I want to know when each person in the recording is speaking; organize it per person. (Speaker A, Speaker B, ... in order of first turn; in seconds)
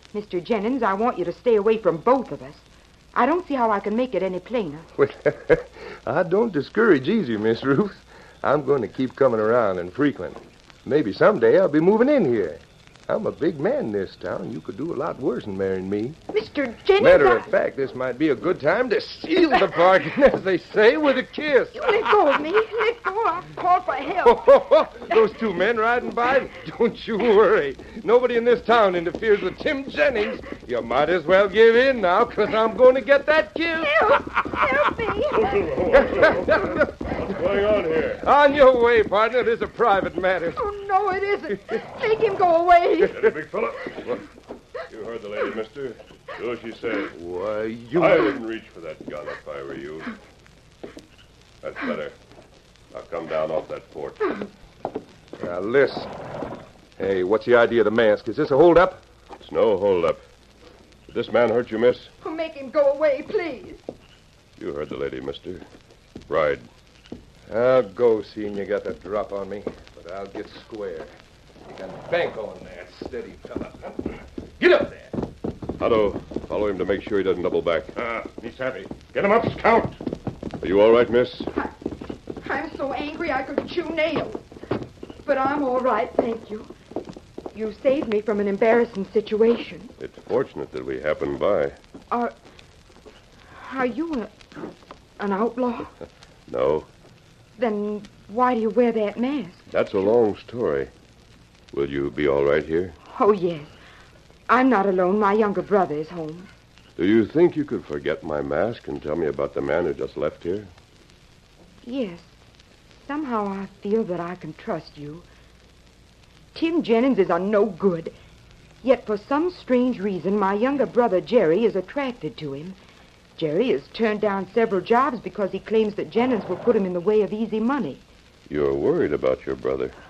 Speaker A: 0.1-4.9, 16.3-17.5, 21.7-24.5, 33.8-35.6, 40.5-43.3, 62.2-63.8, 82.4-84.4, 85.2-86.7, 87.5-89.9, 93.5-94.3, 95.2-95.9, 97.5-99.6, 103.1-103.7, 104.5-106.5, 111.8-112.3, 113.0-115.2, 116.5-118.1, 118.8-122.8, 123.4-128.0
Speaker B: 5.0-16.2, 17.0-22.2, 24.2-34.6, 35.9-36.9, 38.2-40.6, 47.1-48.3, 55.4-56.1, 57.0-59.0, 67.5-71.1, 71.7-75.1
Speaker C: 35.3-38.2, 43.1-44.2, 44.9-47.1, 47.9-50.1, 51.6-52.1, 52.9-54.4, 59.4-60.2, 61.1-62.1, 64.6-65.6, 66.3-66.7, 75.8-77.9, 80.6-81.5, 90.0-91.8, 96.5-96.9, 99.7-100.9, 101.7-103.0, 107.0-110.7, 128.5-129.9
Speaker D: 78.0-80.0